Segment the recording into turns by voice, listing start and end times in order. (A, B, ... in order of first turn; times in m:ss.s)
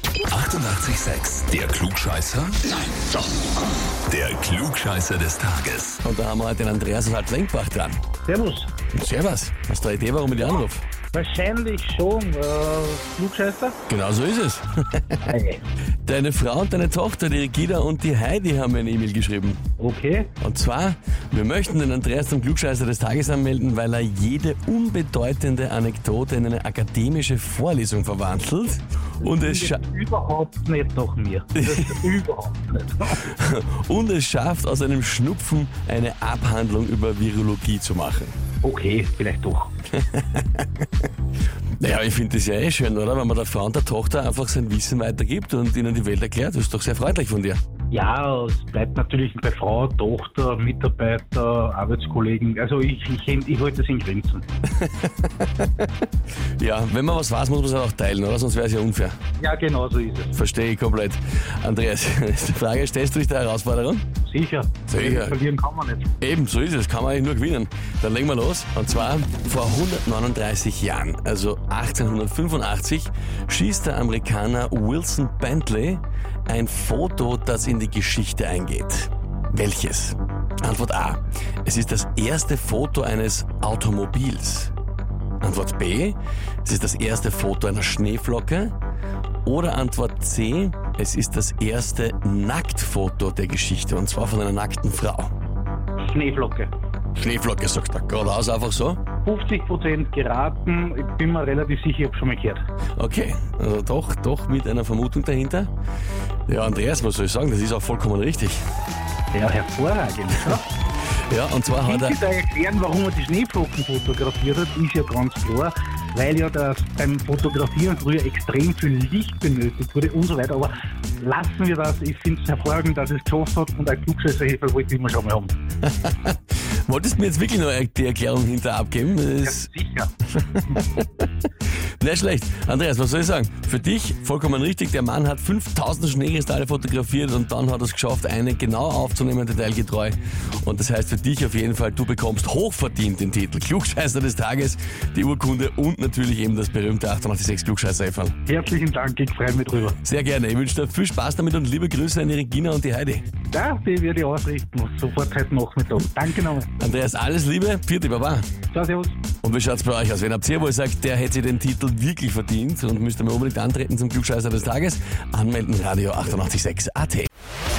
0:00.3-0:03.1 A
0:04.1-0:06.0 A
0:06.0-0:08.0 B
0:08.2-0:08.7 C
0:08.9-0:10.8 B
0:11.1-0:13.8 C
0:13.9-0:15.3 B
0:15.2-0:15.6 C
0:16.0-0:19.6 B
0:19.8-0:20.3 C
0:20.4-0:29.8 B
0:29.2-0:33.2 C
0:31.5-0:32.1 B
0:33.1-0:38.4 B
0:38.6-0:39.7 C
0:40.0-0:40.8 B
0:41.8-0:47.6 B
0:47.9-0:54.4 C
0:54.8-0:55.9 B
0:56.6-0:59.2 B
0:59.4-1:00.3 C
1:00.3-1:04.0 B
1:04.2-1:06.1 C
1:04.9-1:05.4 B
1:06.2-1:24.7 B
1:25.4-1:28.7 B
1:29.4-1:35.3 B
1:36.1-1:36.7 C
1:37.2-1:39.0 B
1:39.2-1:42.6 C
1:43.0-1:45.7 B
1:46.5-1:48.6 B
1:49.3-1:50.7 C
1:51.3-1:52.2 B
1:51.7-2:05.5 C
2:05.8-2:09.7 B
2:09.4-2:10.1 C
2:10.4-2:11.1 B
2:12.0-2:28.4 B
2:28.4-2:30.0 C
2:30.0-2:33.2 B
2:33.5-2:36.7 C
2:36.8-2:38.4 B
2:38.7-2:39.2 C
2:39.4-2:47.3 B